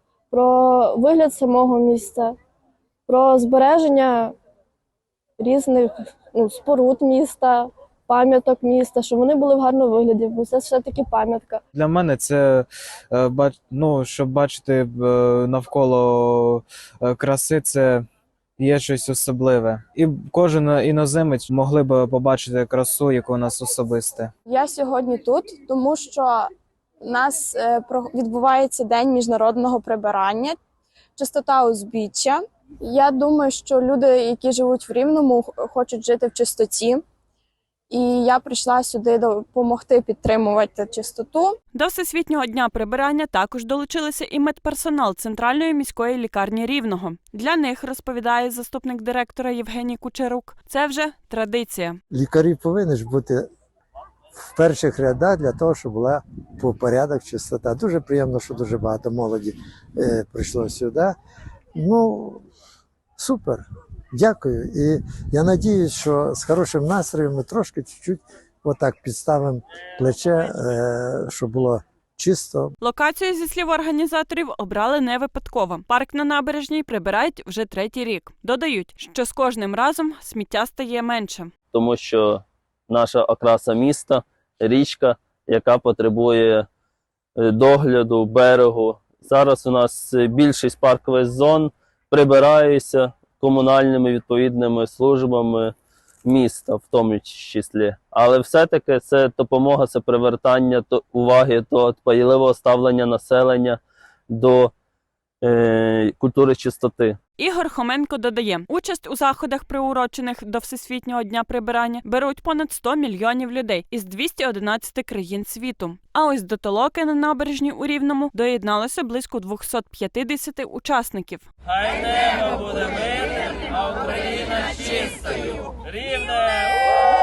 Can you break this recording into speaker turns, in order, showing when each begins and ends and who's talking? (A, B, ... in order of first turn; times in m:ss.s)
0:00.3-0:02.4 A
0:03.1-0:04.4 A
0:05.4-0:11.6 A
0:11.7-0:18.0 B
0:18.6-0:24.3 B
0:24.5-0:26.5 C
0:27.0-0:30.6 C
0:31.2-0:37.0 C
0:37.9-0:41.6 C
0:41.8-0:52.0 D
0:52.1-0:53.4 E
0:54.4-1:01.2 E
1:01.8-1:02.4 E
1:03.2-1:03.6 E
1:04.2-1:12.7 E
1:12.8-1:21.5 D
1:21.7-1:26.7 F
1:27.4-1:35.7 F
1:36.2-1:44.7 F
1:45.4-1:47.2 F
1:47.4-2:01.5 D